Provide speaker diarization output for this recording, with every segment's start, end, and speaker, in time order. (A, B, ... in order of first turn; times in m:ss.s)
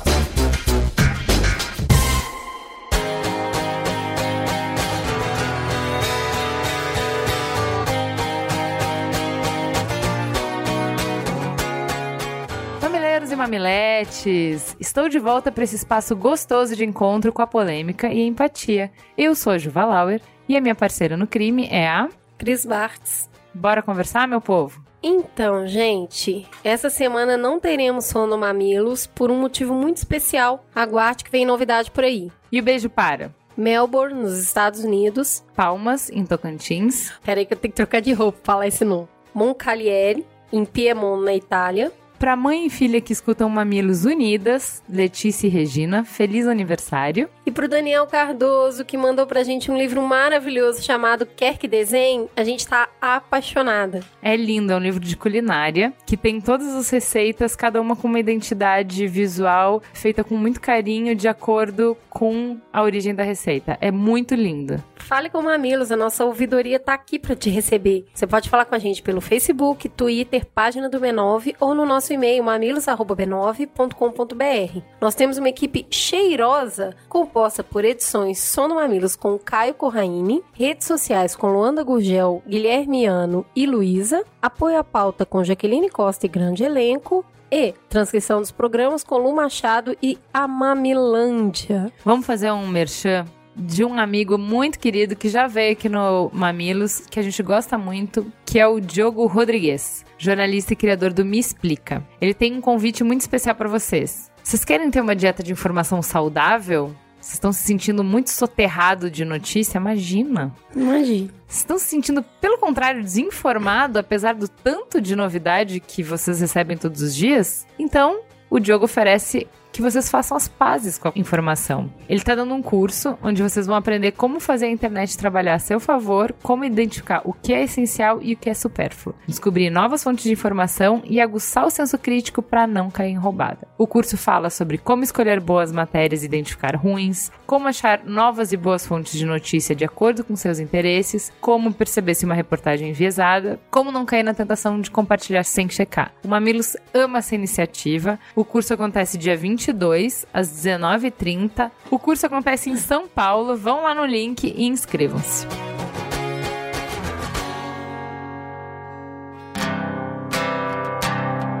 0:12.8-0:22.1 A
0:22.4-0:23.3 B
0:23.5-0:24.8 A
0:25.0-0:32.3 B
0:32.5-0:33.3 A
0:33.6-0:35.4 B
0:35.6-0:37.1 A
0:37.2-0:41.9 B
0:42.2-0:47.3 A
0:47.4-0:54.0 B
0:54.2-1:04.8 A
1:05.0-1:31.9 B
1:32.0-1:50.6 A
1:50.7-1:51.3 B
1:51.5-2:35.5 A